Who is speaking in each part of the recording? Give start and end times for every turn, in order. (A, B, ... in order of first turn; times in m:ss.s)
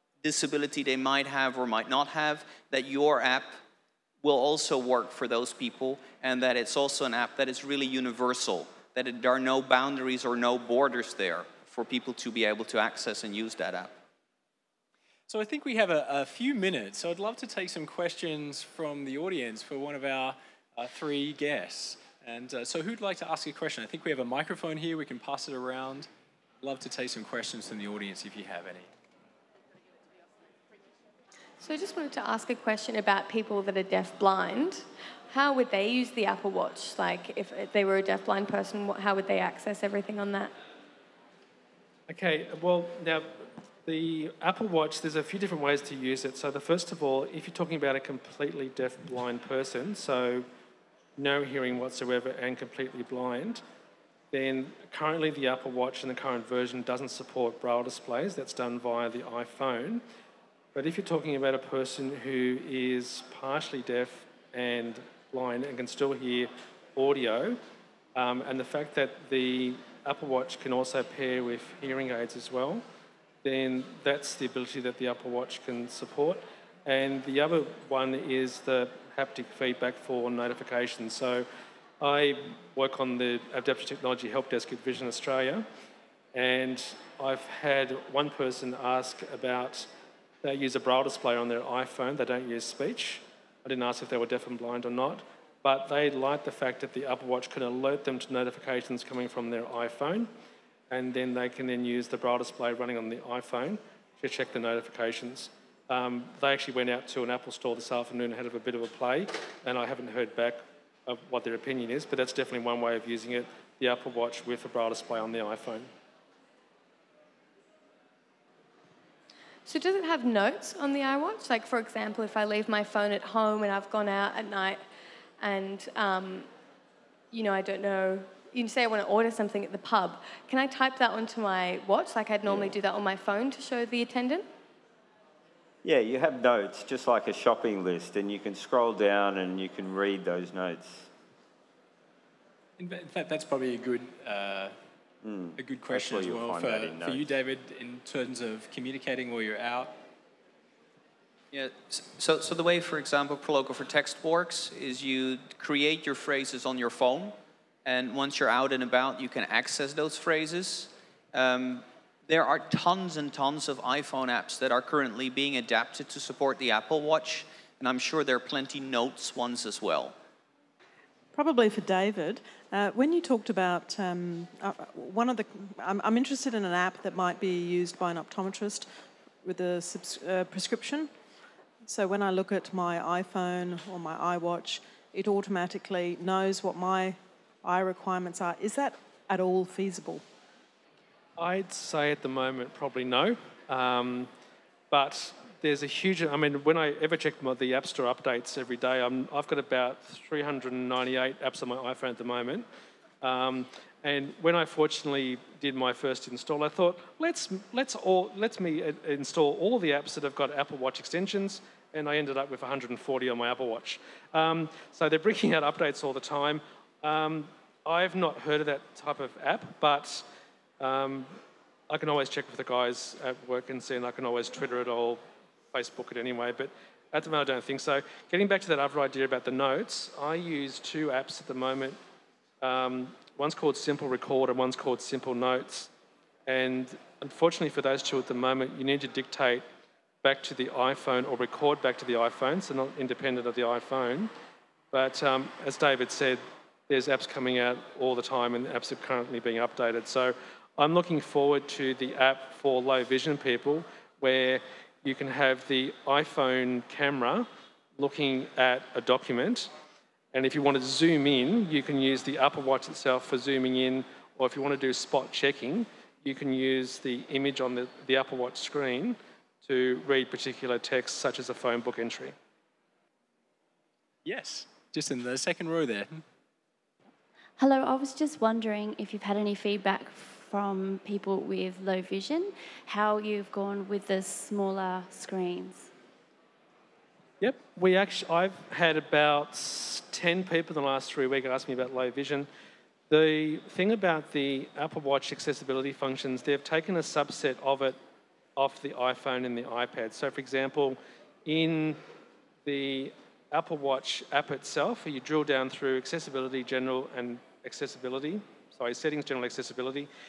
0:00.2-0:03.5 A
0:04.2-0:13.9 A
0:15.3-0:26.1 B
0:26.6-0:28.9 B
0:31.6-0:40.5 C
0:42.1-0:43.3 D
0:43.8-0:50.4 D
0:51.2-0:53.6 D
0:54.3-1:00.0 D
1:00.7-1:07.6 D
1:08.1-1:12.8 D
1:13.4-1:21.4 D
1:22.0-1:25.6 D
1:26.3-1:29.9 D
1:30.4-1:40.3 D
1:40.9-1:55.9 D
1:59.6-2:04.8 C
2:05.4-2:06.5 C
2:07.3-2:14.4 C
2:12.4-2:12.8 E
2:15.8-2:21.1 E
2:22.8-2:24.7 B
2:25.2-2:27.3 E
2:25.6-2:29.9 B
2:31.5-2:50.1 A
2:51.3-2:58.9 F
2:59.4-3:01.1 F
3:01.8-3:10.2 F
3:11.4-3:14.3 D
3:14.9-3:22.6 D
3:23.2-3:40.2 D
3:40.8-3:41.4 D
3:41.9-3:52.0 D
3:52.6-3:55.9 D
3:56.5-3:59.6 D
4:00.2-4:04.3 D
4:04.9-4:19.7 D
4:20.3-4:32.4 D
4:34.2-4:36.2 B
4:37.6-4:45.9 G
4:47.4-4:52.5 D
4:53.1-4:58.0 D
4:58.6-5:02.0 D
5:02.6-5:10.1 D